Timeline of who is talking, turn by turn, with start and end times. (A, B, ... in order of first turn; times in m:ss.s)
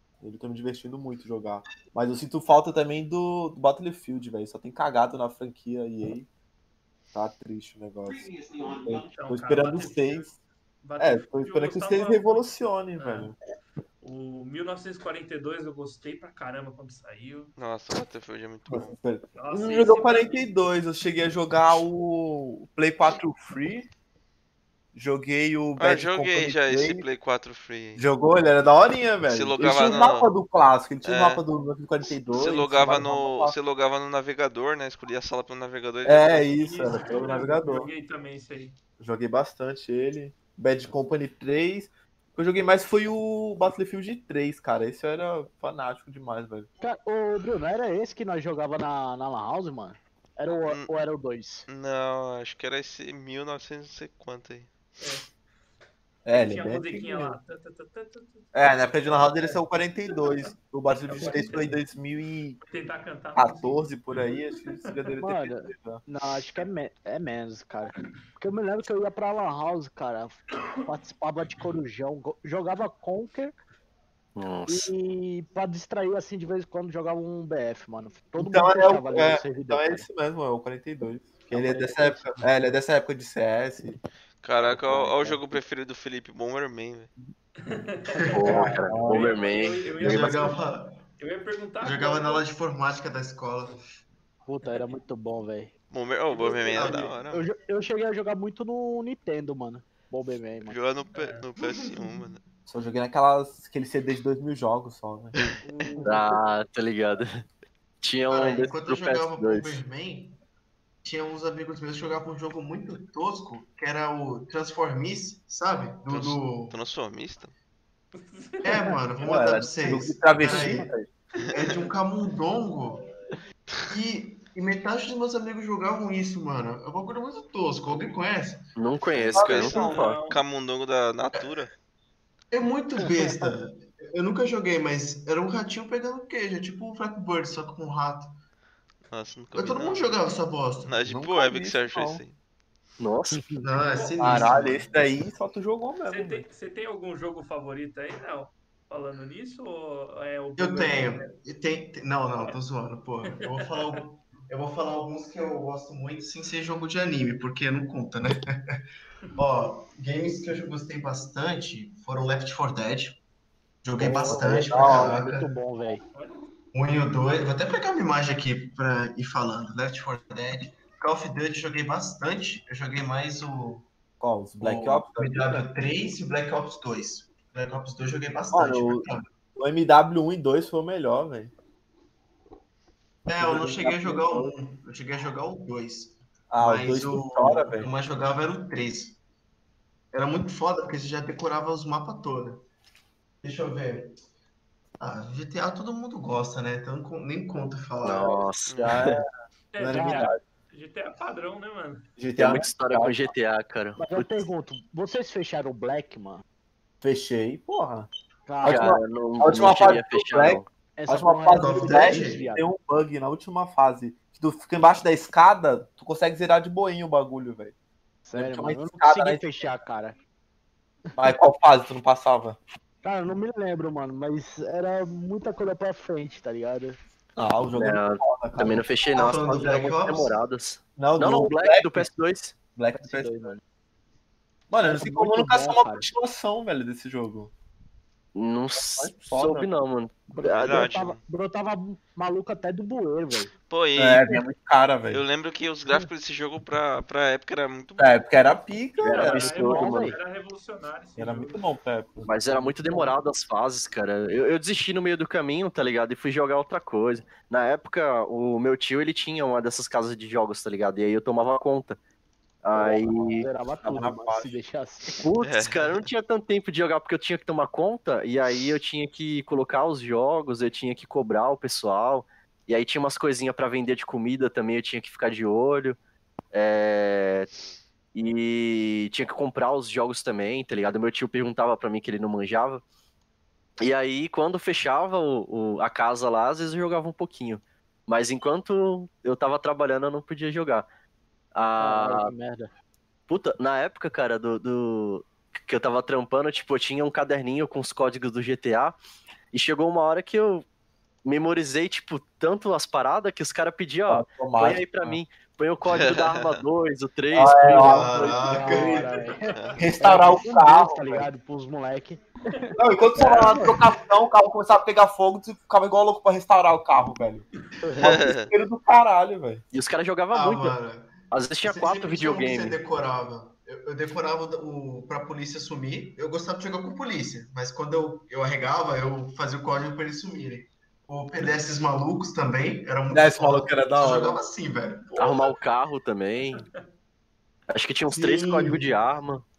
0:00.2-0:06.3 A
0:07.1-0:10.3 A
0:09.0-0:12.4 B
0:11.0-0:13.4 A
0:13.0-0:13.3 B
0:14.0-0:17.5 B
0:17.6-0:19.0 C
0:18.7-0:23.9 A
0:19.4-0:20.4 B
0:24.9-0:27.1 A
0:25.8-0:28.0 C
0:28.0-0:33.6 A
0:29.3-0:30.3 C
0:31.0-0:31.4 C
0:32.3-0:36.6 C
0:36.0-0:37.9 A
0:36.5-0:38.8 B
0:39.0-0:46.7 A
0:46.8-0:51.7 D
0:51.7-0:54.7 C
0:55.0-0:55.3 B
0:56.2-0:57.4 A
0:56.3-1:00.4 B
0:58.5-1:02.6 A
1:01.1-1:01.8 B
1:02.6-1:05.0 B
1:03.4-1:06.0 A
1:05.2-1:13.6 D
1:14.4-1:14.9 E
1:14.7-1:20.1 D
1:18.4-1:24.0 A
1:21.5-1:22.3 D
1:24.4-1:27.1 C
1:27.6-1:30.6 B
1:28.2-1:28.7 F
1:28.3-1:30.5 E
1:30.0-1:31.0 F
1:31.2-1:32.5 B
1:31.8-1:33.8 F
1:34.5-1:35.7 D
1:35.9-1:37.5 C
1:36.3-1:37.2 F
1:36.8-1:40.8 D
1:40.7-1:42.4 C
1:41.2-1:41.5 B
1:41.6-1:42.3 F
1:42.7-1:45.4 A
1:45.7-1:46.2 D
1:45.7-1:46.2 B
1:46.0-1:47.4 E
1:48.0-1:49.8 E
1:48.3-1:50.4 F
1:51.0-1:56.8 F
1:56.1-1:57.5 C
1:58.2-1:59.0 B
1:58.6-2:00.9 F
1:59.2-2:00.9 A
2:00.6-2:00.9 D
2:01.5-2:03.0 F
2:01.6-2:01.9 B
2:03.9-2:08.6 F
2:08.8-2:10.2 E
2:09.1-2:11.7 C
2:09.4-2:09.7 A
2:09.5-2:10.4 B
2:12.5-2:18.3 F
2:13.2-2:13.5 D
2:19.1-2:20.2 C
2:19.5-2:21.0 F
2:20.9-2:22.4 C
2:21.1-2:22.2 A
2:23.0-2:23.6 E
2:23.3-2:23.6 D
2:23.6-2:24.9 F
2:23.8-2:24.5 B
2:24.2-2:26.4 A
2:26.1-2:31.3 B
2:30.6-2:38.8 F
2:33.6-2:34.0 B
2:39.4-2:43.2 F
2:43.8-2:45.5 F
2:44.0-2:46.0 D
2:44.4-2:45.2 A
2:46.7-2:53.9 F
2:54.2-2:55.7 A
2:54.6-2:59.2 F
2:58.5-3:01.5 A
3:03.3-3:09.2 F
3:03.4-3:04.5 A
3:06.5-3:07.9 A
3:10.1-3:12.6 F
3:13.4-3:14.1 F
3:15.0-3:18.4 F
3:18.0-3:19.2 E
3:18.7-3:19.0 C
3:18.8-3:19.2 A
3:19.7-3:22.0 B
3:19.8-3:20.4 A
3:19.9-3:20.3 D
3:22.2-3:23.2 A
3:22.4-3:24.5 E
3:24.0-3:26.4 D
3:27.0-3:28.1 A
3:28.5-3:28.8 D
3:28.6-3:37.7 A
3:28.6-3:30.7 E
3:31.0-3:32.6 D
3:31.6-3:32.4 F
3:38.2-3:40.2 D
3:38.3-3:39.5 A
3:41.2-3:42.6 A
3:43.0-3:47.0 D
3:47.4-3:48.8 A
3:47.8-3:52.6 E
3:49.1-3:50.4 F
3:51.0-3:52.1 A
3:52.8-3:53.5 A
3:53.0-3:53.6 D
3:54.7-3:57.5 A
3:54.8-3:56.1 D
3:58.4-4:00.9 E
3:58.8-3:59.7 A
4:00.3-4:03.5 D
4:00.6-4:01.2 C
4:03.7-4:04.4 C
4:04.0-4:05.2 A
4:05.1-4:08.2 C
4:08.0-4:09.6 A
4:09.0-4:10.1 E
4:09.0-4:11.6 B
4:09.6-4:10.2 D
4:11.2-4:12.7 A
4:12.2-4:22.0 E
4:22.6-4:23.5 E
4:22.8-4:25.2 D
4:23.6-4:24.6 A
4:25.1-4:36.0 E
4:25.4-4:26.1 C
4:36.5-4:37.5 E
4:38.2-4:42.8 E
4:43.8-4:50.9 E
4:51.5-4:52.3 E
4:51.8-4:52.7 D
4:53.3-4:59.0 E
4:59.5-5:00.7 E
5:01.2-5:08.8 E
5:04.1-5:05.2 A
5:05.9-5:06.6 C
5:07.3-5:08.4 A
5:07.7-5:09.2 F
5:08.0-5:13.8 D
5:09.2-5:09.6 B
5:09.5-5:09.8 C
5:09.8-5:11.3 A
5:12.8-5:17.4 A
5:13.2-5:13.6 E
5:17.8-5:18.2 D
5:18.0-5:18.5 C
5:18.0-5:19.6 A
5:19.7-5:20.8 E
5:20.3-5:35.6 F
5:21.3-5:22.8 E
5:33.1-5:34.4 A
5:35.2-5:36.6 E
5:37.7-5:39.4 E
5:38.1-5:39.0 F